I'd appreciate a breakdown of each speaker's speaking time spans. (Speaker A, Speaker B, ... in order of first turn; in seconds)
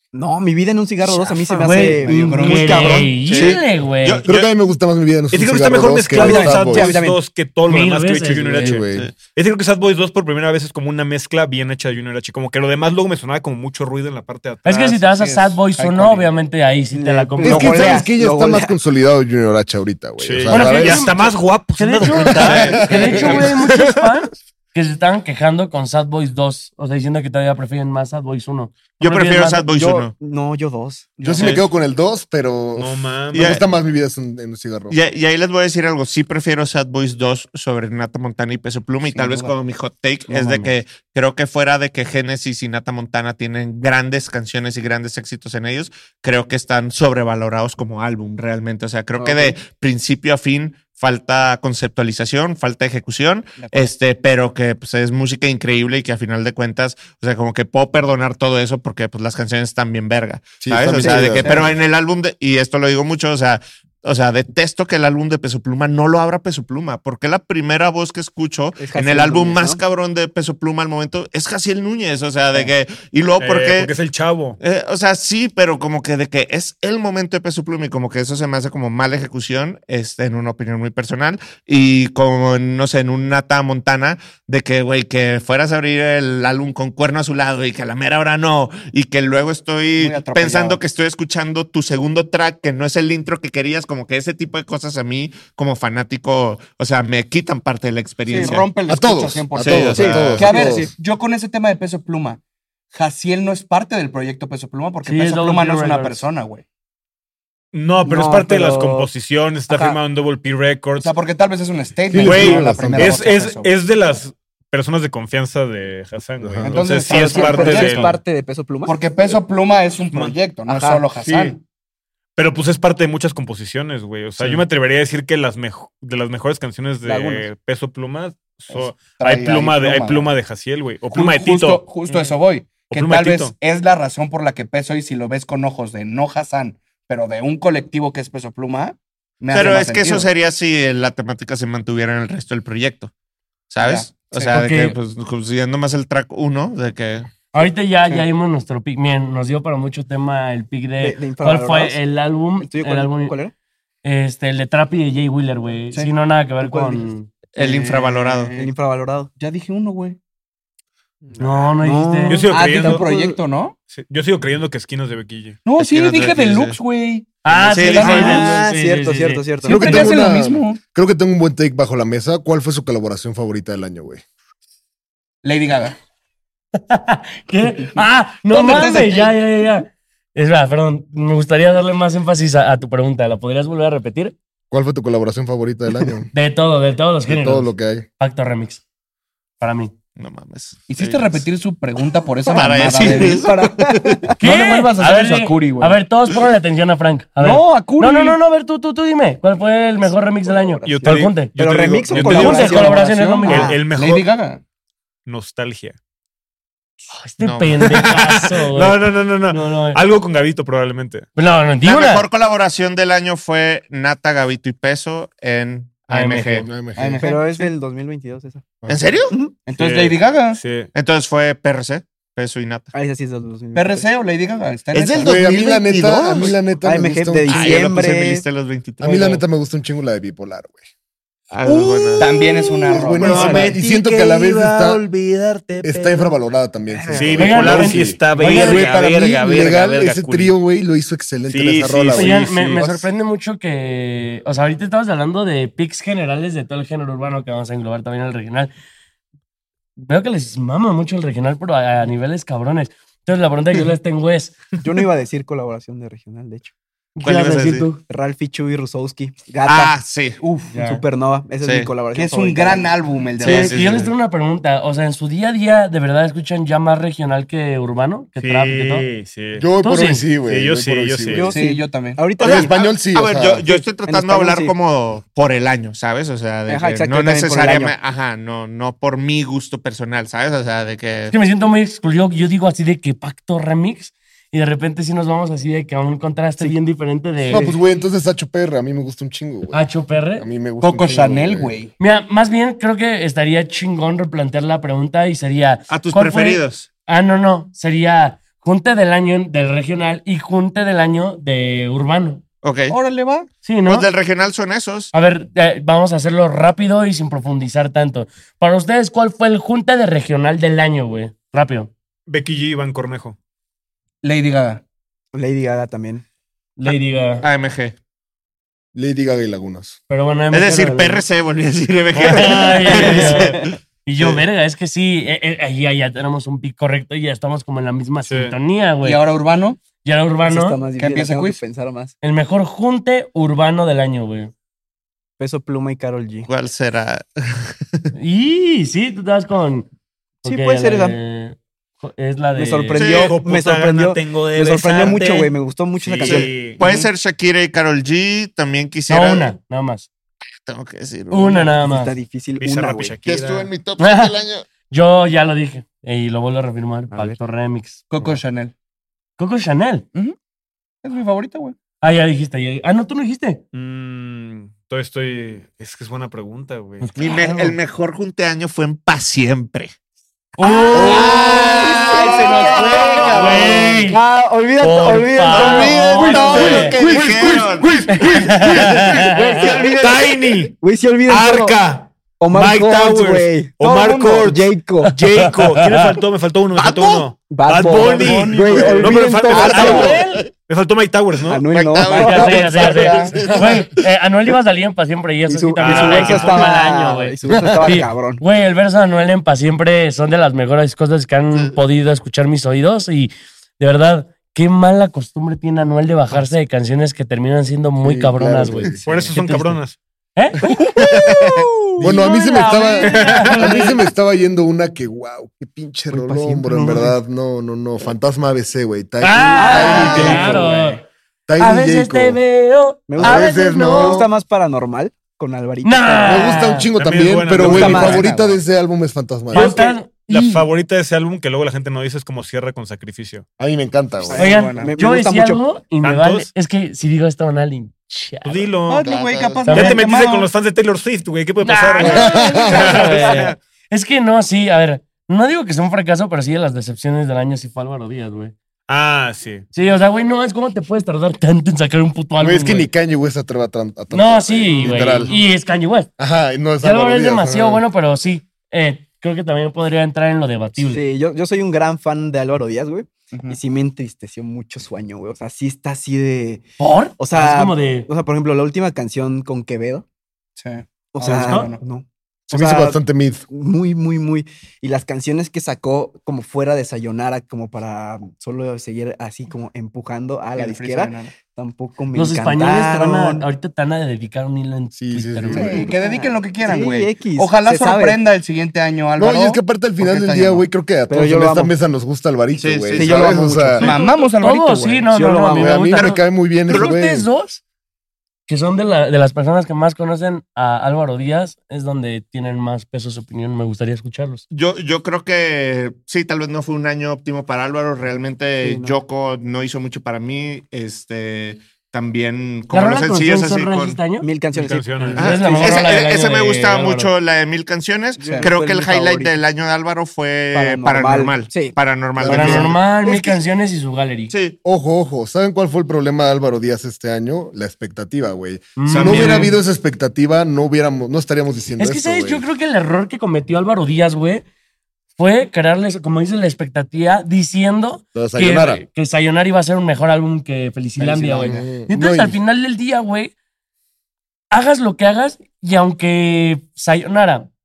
Speaker A: 0.1-3.1, 6.1-7.2, 16.9-18.7, 29.7-31.2, 49.2-49.5, 61.0-61.6, 68.8-69.8, 98.3-98.6, 100.0-100.9, 108.0-109.1, 109.7-110.0, 117.0-119.0, 120.7-121.0, 127.0-127.4, 151.0-152.0, 152.6-153.5, 156.6-157.1, 158.5-159.3, 161.3-163.4, 168.0-170.1, 192.7-194.4, 200.0-203.8, 217.2-218.7, 222.9-224.1, 226.4-228.4, 237.0-237.3, 254.8-256.7, 258.0-260.0, 260.8-262.9, 271.3-272.8, 273.6-274.8, 276.7-277.9, 315.3-316.2, 323.1-323.4, 330.4-332.1, 335.4-336.5, 340.4-341.2, 342.5-346.9, 351.8-353.1, 357.1-357.4, 370.9-376.9, 379.6-380.1, 380.8-381.8, 382.4-385.1, 387.4-390.2, 391.5-392.7, 395.5-398.4, 416.1-417.1, 419.6-420.6, 423.1-426.8, 427.6-428.2, 434.3-435.6, 460.8-466.6, 467.2-470.0, 471.1-473.0, 473.5-483.4, 485.8-488.2, 491.1-491.7, 493.0-494.0, 495.1-495.9, 508.6-509.0, 514.2-515.9, 518.2-519.4, 520.5-521.8
Speaker B: 1.5-4.2, 7.7-8.8, 14.6-18.0, 20.5-21.2, 21.8-29.7, 40.3-40.8, 105.0-106.2, 144.5-145.0, 147.5-153.4, 154.0-157.3, 161.4-162.5, 167.4-169.5, 176.8-184.3, 186.3-188.8, 189.6-189.9, 194.4-201.5, 202.1-203.7, 207.1-210.0, 211.4-212.3, 216.1-216.7, 237.4-238.9, 242.1-248.7, 250.0-254.6, 257.1-258.0, 263.4-269.1, 269.8-270.2, 281.3-287.8, 289.7-290.5, 292.0-302.4, 303.6-304.1, 305.1-311.9, 316.8-317.5, 320.1-321.2, 322.1-329.2, 330.0-330.8, 332.2-334.5, 338.1-339.9, 340.4-343.1, 349.1-350.1, 351.3-352.1, 354.0-354.4, 354.9-358.0, 359.4-360.1, 362.0-363.6, 367.0-367.8, 370.6-371.8, 373.3-374.2, 374.8-377.0, 378.2-379.7, 385.0-386.2, 389.5-390.4, 392.1-409.8, 410.4-414.0, 419.2-421.0, 421.6-424.2, 425.8-426.9, 429.5-430.6, 434.4-438.7, 439.6-440.0, 441.6-448.5, 449.7-452.9, 454.1-456.1, 456.8-461.0, 466.8-468.1, 471.3-471.7, 482.1-485.8, 493.9-497.6, 498.5-504.4, 512.7-514.3, 515.1-517.1, 522.2-524.3, 528.8-529.6, 531.8-534.4, 535.2-543.3, 544.5-547.5
Speaker C: 1.6-3.1, 15.0-16.3, 31.2-31.6, 39.1-39.5, 53.6-53.9, 61.0-61.6, 89.9-90.8, 98.3-102.4, 102.9-106.6, 111.0-113.7, 116.6-118.2, 118.8-121.6, 128.7-130.3, 131.1-140.3, 143.8-144.6, 157.6-158.7, 159.4-160.2, 162.5-163.8, 165.6-167.4, 167.9-168.2, 169.6-170.8, 175.4-176.0, 178.5-179.4, 190.9-193.5, 194.4-196.0, 197.4-198.4, 202.3-204.6, 216.9-217.7, 219.7-220.6, 223.7-225.4, 231.6-233.7, 260.4-261.0, 262.1-263.9, 271.4-272.3, 290.8-291.9, 302.9-303.5, 314.2-314.8, 329.0-329.8, 331.0-331.6, 358.1-358.7, 361.0-361.8, 383.8-384.5, 388.0-389.1, 389.6-390.0, 392.1-393.4, 419.7-420.6, 427.6-428.6, 434.3-434.9, 438.9-440.5, 463.3-463.6, 470.6-471.8, 480.5-481.4, 485.5-490.6, 493.8-495.1, 518.2-518.5, 541.0-541.6
Speaker D: 3.1-4.5, 22.8-23.9, 29.0-30.1, 31.4-31.6, 33.3-33.6, 34.9-73.9, 74.6-98.7, 99.5-100.5, 139.5-143.1, 143.7-147.5, 157.5-158.5, 165.8-166.8, 167.5-168.7, 190.2-191.4, 192.5-194.3, 207.4-208.2, 211.8-216.8, 218.9-219.3, 220.9-222.9, 224.9-226.6, 227.5-229.4, 231.5-232.5, 233.2-233.9, 234.7-236.2, 257.2-257.9, 259.6-260.4, 261.6-261.9, 263.4-264.1, 272.4-281.4, 295.9-296.9, 302.6-303.0, 303.9-305.1, 317.4-318.0, 320.5-324.4, 336.4-338.0, 342.9-343.3, 346.2-349.5, 350.6-351.7, 353.2-354.7, 367.1-369.9, 370.6-374.0, 375.4-378.0, 378.9-380.3, 386.9-387.2, 389.6-390.4, 391.7-393.9, 395.9-396.4, 439.0-439.7, 442.8-443.5, 492.6-493.9, 504.5-514.1, 515.1-522.8, 524.3-524.6, 528.9-529.5
Speaker E: 4.2-6.9, 8.5-9.1, 17.4-21.1, 22.0-23.5, 31.2-35.0, 60.6-61.8, 98.9-100.9, 112.1-113.2, 116.4-116.9, 169.7-174.2, 184.7-186.3, 187.2-188.1, 216.6-217.2, 218.8-219.2, 225.2-227.9, 229.0-230.9, 232.9-235.0, 235.8-242.9, 269.6-271.5, 272.4-273.6, 287.5-291.7, 318.9-320.0, 397.5-398.0, 408.0-409.0, 410.9-420.6, 421.5-422.4, 423.2-424.3, 426.2-429.8, 433.6-434.6, 442.0-443.0, 452.4-455.3, 456.2-457.8, 472.5-473.4, 485.0-485.9, 489.2-493.9, 495.5-497.3, 522.1-522.8, 524.6-532.4, 538.1-538.8, 541.4-542.4
Speaker F: 5.3-15.0, 20.2-23.7, 32.8-33.6, 73.4-74.6, 107.7-111.1, 112.2-118.2, 121.2-121.6, 122.4-131.9, 132.9-133.5, 162.3-163.1, 163.9-165.6, 200.9-204.3, 205.2-205.9, 207.9-211.3, 219.8-220.9, 233.2-235.0, 237.1-240.5, 241.5-242.9, 268.4-269.6, 270.4-271.5, 312.3-313.4, 328.2-328.6, 343.0-346.8, 352.6-353.7, 363.7-367.1, 376.6-380.7, 381.3-391.6, 395.8-396.6, 409.0-410.0, 413.0-413.7, 419.7-420.9, 426.9-428.3, 429.5-433.4, 436.0-436.5, 438.4-439.1, 439.7-443.5, 448.9-449.6, 514.5-515.4